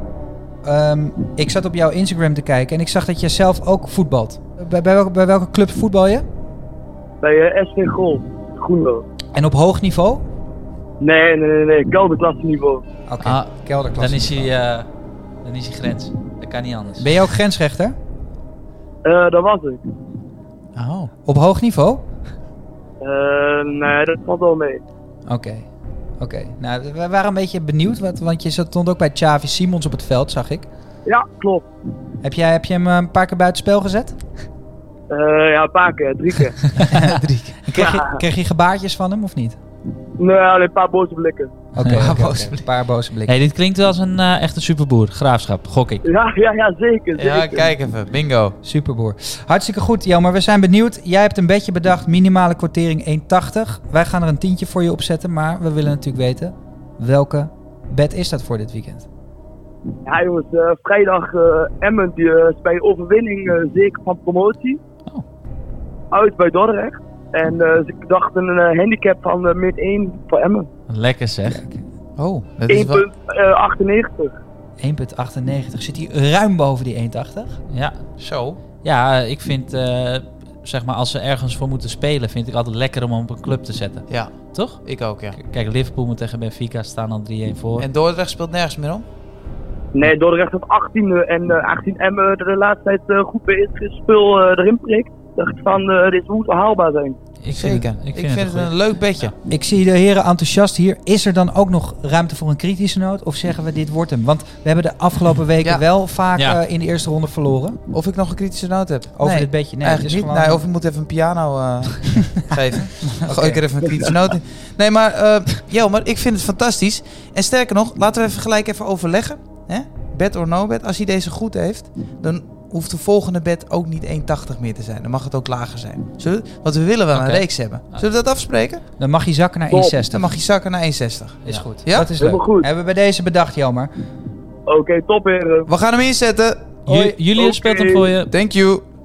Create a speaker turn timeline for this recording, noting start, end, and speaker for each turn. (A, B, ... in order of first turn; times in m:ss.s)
0:00.6-0:06.3 A
0:07.2-0:09.0 B
0:09.3-0:10.2 A
0:11.0-0:12.8 B
0:13.0-0:14.5 A
0:13.2-0:17.1 C
0:17.0-0:18.0 A
0:19.0-0:19.8 B
0:20.8-0:21.1 D
0:21.2-0:22.1 A
0:23.0-0:24.8 B
0:25.3-0:30.7 A
0:31.0-0:31.7 B
0:32.2-0:34.2 A
0:35.1-0:36.6 B
0:36.9-0:37.7 D
0:36.9-0:39.6 A
0:37.7-0:38.2 B
0:40.2-0:41.5 B
0:41.7-0:43.4 A
0:41.8-0:42.1 C
0:41.8-0:42.6 D
0:43.3-0:46.0 C
0:46.0-0:47.7 B
0:47.1-0:48.6 D
0:48.6-0:59.1 A
1:00.0-1:04.8 B
1:06.1-1:10.7 B
1:10.9-1:11.6 C
1:11.4-1:11.8 A
1:12.2-1:13.0 D
1:12.7-1:14.3 B
1:14.8-1:17.6 A
1:17.7-1:27.9 C
1:18.2-1:18.6 D
1:24.1-1:25.4 D
1:27.8-1:29.0 D
1:29.9-1:37.2 B
1:37.4-1:38.7 C
1:37.5-1:39.3 D
1:39.4-1:47.8 A
1:47.9-2:08.8 D
1:49.2-1:50.6 A
1:53.2-1:53.7 A
2:07.1-2:08.0 C
2:09.0-2:10.4 A
2:09.7-2:10.0 B
2:10.1-2:12.1 D
2:11.4-2:13.9 A
2:12.2-2:12.7 B
2:14.7-2:15.7 B
2:15.6-2:16.8 D
2:16.8-2:18.3 C
2:16.9-2:17.2 A
2:17.3-2:18.1 B
2:18.3-2:18.8 D